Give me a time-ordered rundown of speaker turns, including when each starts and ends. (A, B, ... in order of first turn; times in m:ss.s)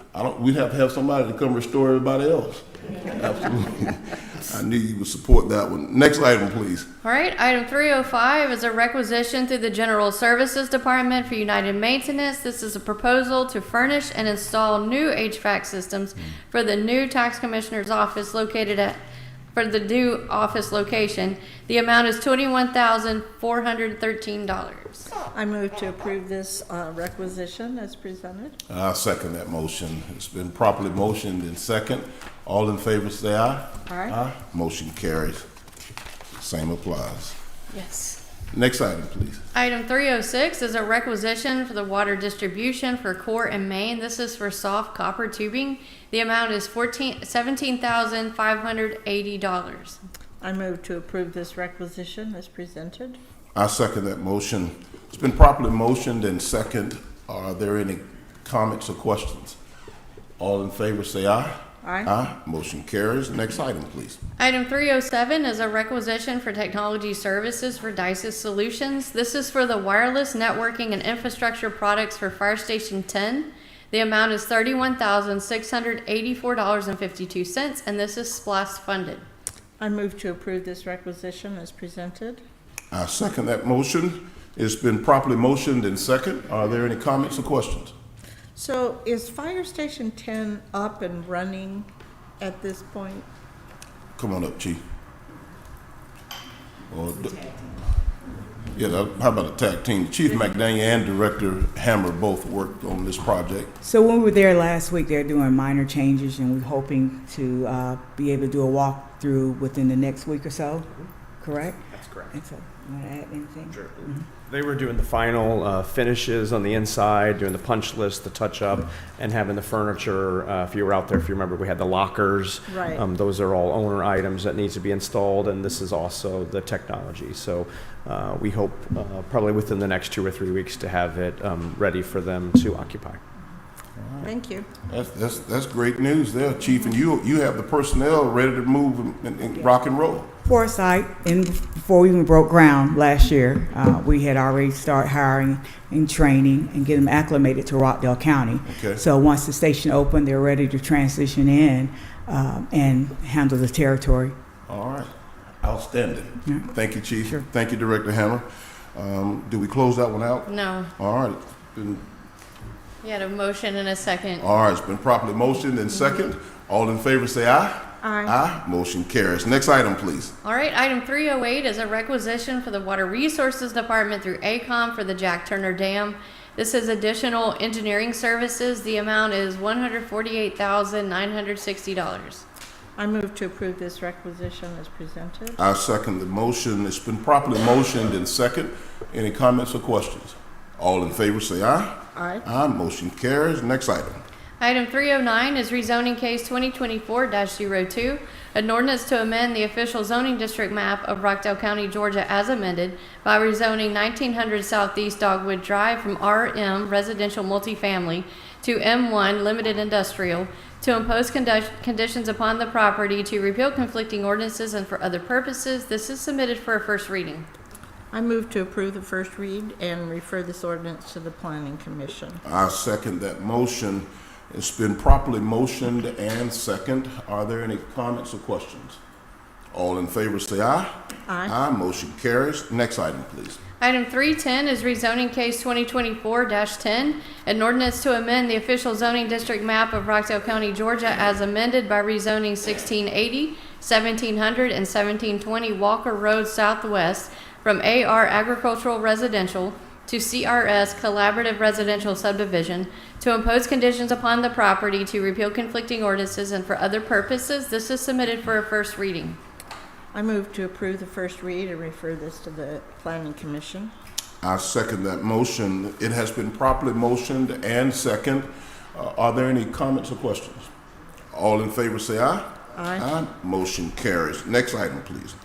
0:00.1-0:06.9 A
0:07.0-0:19.0 B
0:19.5-0:25.1 B
0:25.2-0:28.6 C
0:28.7-0:35.4 A
0:33.9-0:34.1 C
0:36.3-0:37.3 A
0:37.7-0:38.2 B
0:38.5-0:39.4 A
0:39.5-0:50.0 B
0:50.4-0:53.2 C
0:53.5-0:59.6 A
1:00.4-1:04.2 A
1:01.8-1:02.1 C
1:04.4-1:19.2 B
1:19.8-1:22.4 C
1:22.9-1:27.9 A
1:28.5-1:31.9 C
1:32.4-1:33.2 C
1:34.2-1:34.8 A
1:36.9-1:37.4 A
1:38.7-1:43.7 A
1:43.8-1:50.9 D
1:51.4-1:54.2 D
1:51.9-1:52.3 E
1:53.7-2:13.2 E
2:02.7-2:03.0 C
2:14.0-2:14.3 A
2:14.2-2:14.7 C
2:14.9-2:20.3 A
2:20.4-2:34.3 D
2:28.7-2:29.0 A
2:34.7-2:42.0 A
2:36.4-2:36.7 D
2:40.5-2:40.9 B
2:43.0-2:44.4 B
2:44.4-2:50.3 A
2:48.0-2:48.3 C
2:50.4-3:02.4 B
3:03.0-3:05.6 C
3:05.6-3:14.2 A
3:12.1-3:12.4 C
3:14.6-3:37.4 B
3:38.1-3:42.4 C
3:42.4-3:49.0 A
3:49.7-3:50.9 A
3:51.3-3:51.5 C
3:51.4-3:53.6 A
3:53.8-4:19.4 B
4:20.1-4:23.9 C
4:24.4-4:30.7 A
4:31.3-4:35.3 A
4:32.7-4:33.0 C